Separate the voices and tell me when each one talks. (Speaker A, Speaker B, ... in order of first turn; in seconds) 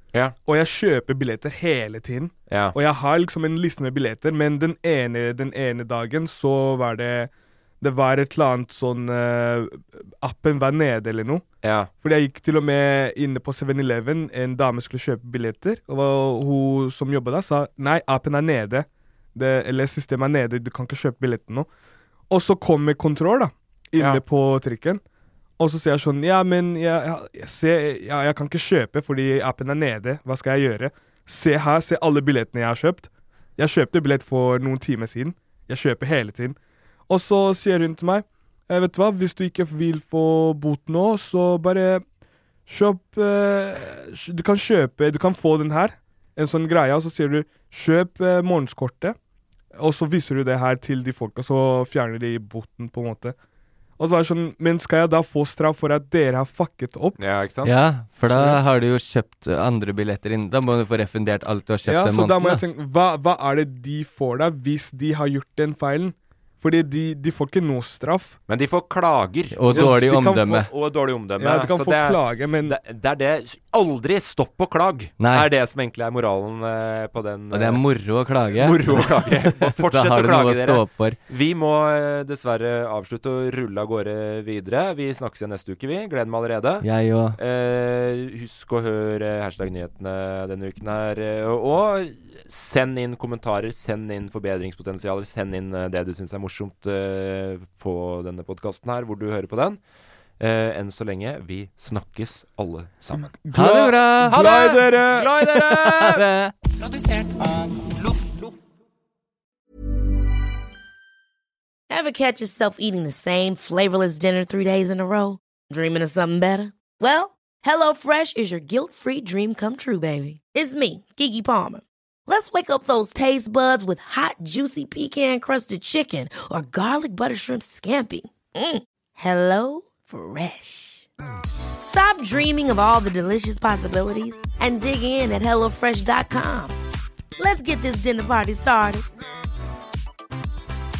Speaker A: 0.5-11.4, 12.0-21.7, 22.3-25.0, 25.6-36.5, 37.1-42.0, 42.7-49.1, 49.8-53.4, 54.0-57.2, 61.8-68.4, 69.7-70.6, 71.4-72.8, 103.4-105.4
Speaker B: 2.5-2.8, 11.6-11.9, 57.2-57.8, 68.5-77.8, 78.5-99.8, 100.4-103.3, 104.3-106.3
Speaker C: 57.6-62.6, 69.5-70.7, 75.2-75.5, 77.5-81.2, 86.8-87.4, 103.5-104.4, 106.0-106.5
Speaker D: 111.9-131.1, 131.8-136.8, 137.4-139.0